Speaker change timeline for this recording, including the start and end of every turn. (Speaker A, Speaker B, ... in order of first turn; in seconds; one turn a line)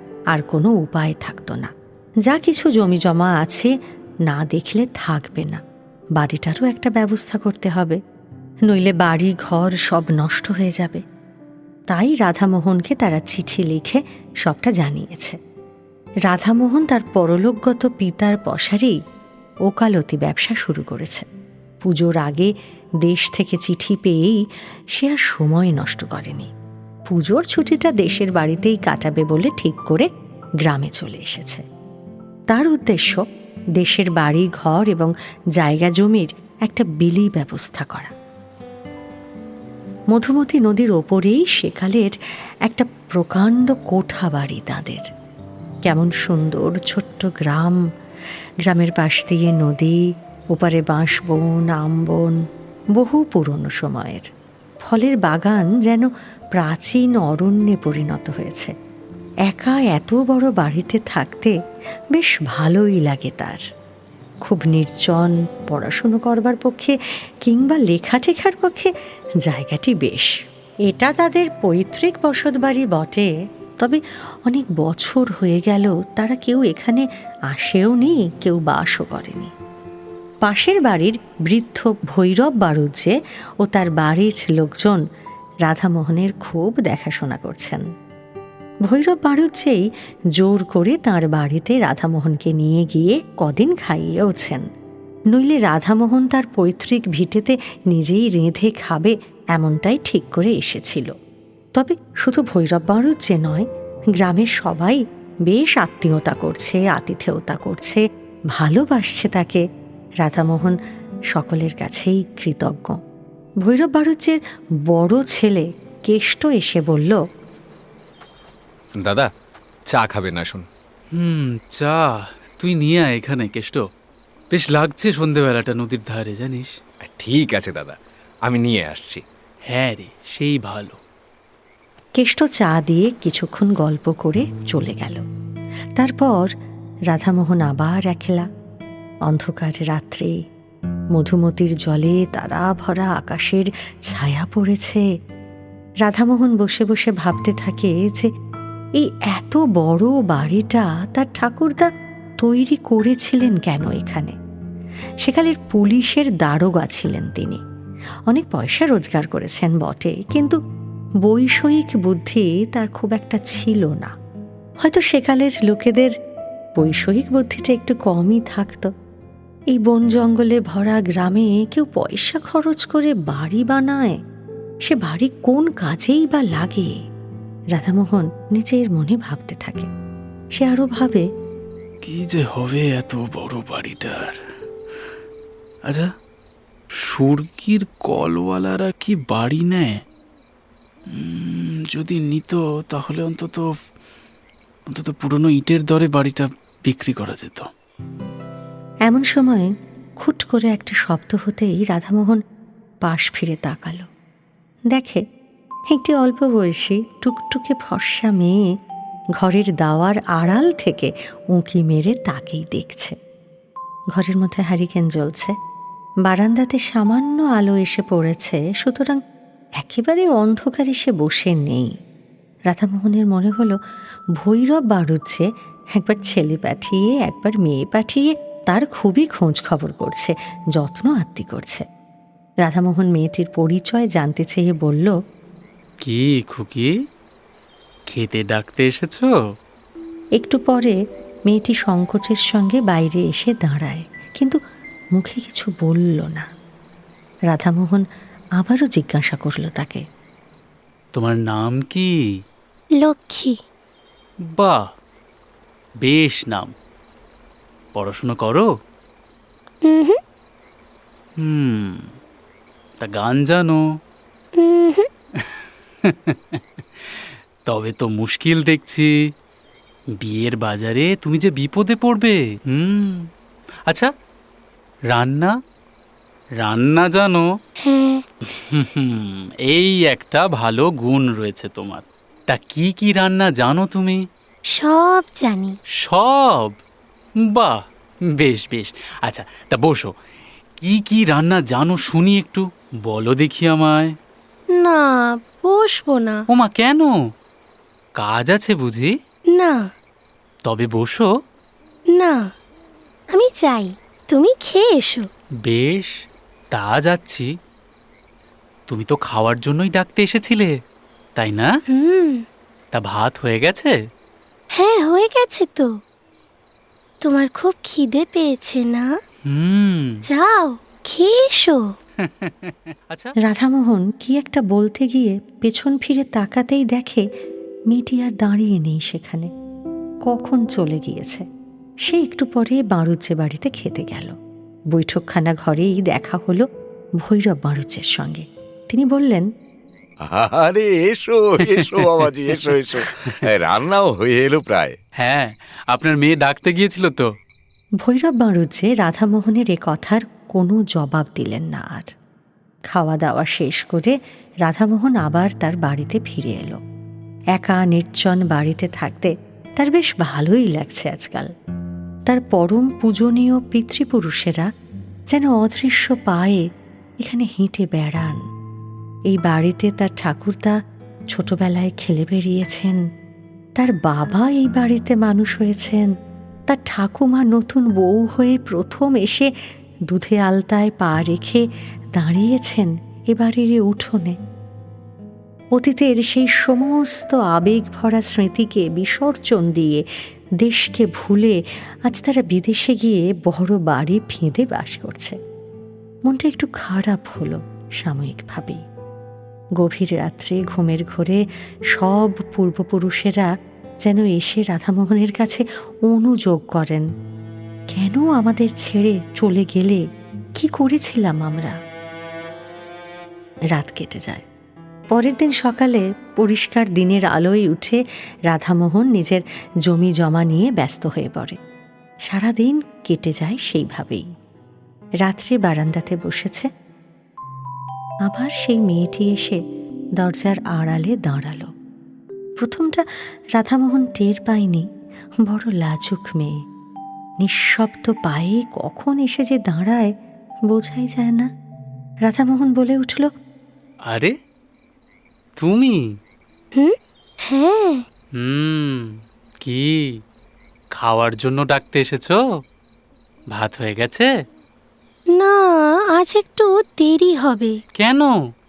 Speaker A: 0.3-1.7
Speaker A: 2.3-3.7
Speaker A: 4.3-5.6
Speaker A: 6.2-8.0
Speaker A: 8.7-11.0
Speaker A: 11.9-15.4
Speaker A: 16.3-19.0
Speaker A: 19.7-21.3
Speaker A: 21.8-22.5
Speaker A: 23.0-24.4
Speaker A: 25.0-26.5
Speaker A: 27.1-30.1
Speaker A: 30.6-31.6
Speaker A: 32.5-33.2
Speaker A: 33.8-38.1
Speaker A: 40.1-42.1
Speaker A: 42.7-45.1
Speaker A: 45.9-47.8
Speaker A: 48.7-50.0
Speaker A: 50.5-52.4
Speaker A: 53.0-54.3
Speaker A: 54.9-58.7
Speaker A: 59.5-61.5
Speaker A: 62.1-63.6
Speaker A: 64.5-68.9
Speaker A: 69.5-70.3
Speaker A: 70.9-73.3
Speaker A: 73.8-79.5
Speaker A: 80.5-83.1
Speaker A: 83.6-85.0
Speaker A: 85.7-87.8
Speaker A: 88.9-89.9
Speaker A: 90.4-94.7
Speaker A: 95.3-101.1
Speaker A: 101.8-103.7
Speaker A: 104.2-108.0
Speaker A: 108.5-109.6
Speaker A: 110.2-110.8
Speaker A: 111.3-113.0
Speaker A: 113.6-114.4
Speaker A: 114.9-117.2
Speaker B: 119.0-119.3
Speaker B: 119.9-120.7
Speaker C: 121.2-123.8
Speaker C: 124.5-126.8
Speaker B: 127.0-129.2
Speaker C: 129.7-131.0
Speaker A: 132.2-135.2
Speaker A: 136.0-136.5
Speaker A: 137.1-138.5
Speaker A: 139.3-140.4
Speaker A: 141.1-145.0
Speaker A: 146.0-148.3
Speaker A: 149.0-151.9
Speaker A: 152.4-154.3
Speaker A: 155.2-157.6
Speaker A: 158.3-160.6
Speaker A: 161.2-164.1
Speaker A: 164.8-166.1
Speaker A: 166.8-168.9
Speaker A: 169.7-174.2
Speaker A: 174.9-176.9
Speaker A: 177.8-179.9
Speaker A: 180.6-181.2
Speaker C: 182.0-184.4
Speaker C: 185.9-186.1
Speaker C: 186.9-190.0
Speaker C: 191.1-193.7
Speaker C: 194.9-197.7
Speaker A: 199.1-199.7
Speaker A: 200.2-202.4
Speaker A: 203.1-204.1
Speaker A: 204.9-205.2
Speaker A: 205.9-208.6
Speaker A: 209.4-213.2
Speaker A: 214.2-215.6
Speaker A: 216.3-219.2
Speaker A: 219.8-221.9
Speaker A: 222.7-223.8
Speaker A: 224.4-231.8
Speaker A: 232.7-235.1
Speaker C: 236.0-236.9
Speaker C: 238.1-239.3
Speaker A: 240.4-241.0
Speaker A: 241.5-244.6
Speaker A: 245.2-246.5
Speaker A: 247.5-248.0
Speaker A: 248.6-250.0
Speaker C: 251.2-252.1
Speaker D: 253.0-253.6
Speaker C: 254.5-254.9
Speaker C: 256.0-256.7
Speaker C: 257.9-258.7
Speaker D: 259.9-260.2
Speaker C: 261.4-262.1
Speaker C: 263.0-263.9
Speaker D: 264.6-265.1
Speaker C: 265.4-269.1
Speaker C: 270.2-273.3
Speaker C: 275.1-275.6
Speaker C: 276.6-277.5
Speaker D: 277.8-278.2
Speaker C: 278.5-284.2
Speaker D: 284.7-285.8
Speaker C: 286.0-286.8
Speaker C: 287.4-290.1
Speaker C: 290.8-294.2
Speaker D: 294.8-296.4
Speaker C: 296.5-297.1
Speaker C: 298.2-299.1
Speaker D: 299.5-299.9
Speaker C: 300.7-301.3
Speaker D: 302.1-302.4
Speaker D: 303.3-305.3
Speaker C: 305.6-306.1
Speaker C: 306.7-307.5
Speaker C: 308.9-310.8
Speaker C: 311.4-311.7
Speaker D: 311.9-312.4
Speaker C: 312.9-313.9
Speaker D: 314.8-315.9
Speaker D: 317.2-319.1
Speaker C: 319.5-320.2
Speaker D: 320.3-321.9
Speaker C: 322.2-323.3
Speaker A: 323.4-327.2
Speaker A: 327.9-329.5
Speaker A: 330.3-331.4
Speaker A: 332.1-334.4
Speaker A: 334.9-336.6
Speaker A: 337.2-339.5
Speaker E: 340.3-345.0
Speaker C: 341.7-343.4
Speaker C: 345.2-347.3
Speaker A: 348.0-352.1
Speaker A: 352.9-354.1
Speaker A: 354.7-356.8
Speaker A: 357.6-361.5
Speaker A: 362.3-364.7
Speaker A: 365.3-366.6
Speaker A: 367.2-368.4
Speaker A: 369.3-370.8
Speaker A: 371.3-373.0
Speaker A: 373.8-376.1
Speaker A: 376.7-379.5
Speaker A: 380.1-381.6
Speaker A: 382.2-384.4
Speaker A: 385.8-390.0
Speaker A: 390.6-395.4
Speaker A: 396.3-398.8
Speaker A: 399.8-401.4
Speaker A: 401.9-403.5
Speaker A: 404.1-407.1
Speaker A: 407.9-410.0
Speaker A: 410.6-411.8
Speaker A: 413.7-414.4
Speaker A: 415.1-418.0
Speaker A: 418.5-421.6
Speaker A: 422.3-424.3
Speaker A: 425.2-426.7
Speaker A: 428.3-429.6
Speaker A: 430.2-431.7
Speaker A: 432.6-433.0
Speaker A: 433.6-434.9
Speaker A: 435.4-436.6
Speaker A: 437.4-440.1
Speaker A: 440.7-441.5
Speaker A: 442.3-443.3
Speaker C: 444.1-444.4
Speaker C: 445.6-446.1
Speaker D: 446.8-448.1
Speaker C: 448.4-450.2
Speaker C: 451.0-452.4
Speaker C: 453.5-454.3
Speaker D: 455.3-457.8
Speaker C: 458.0-458.4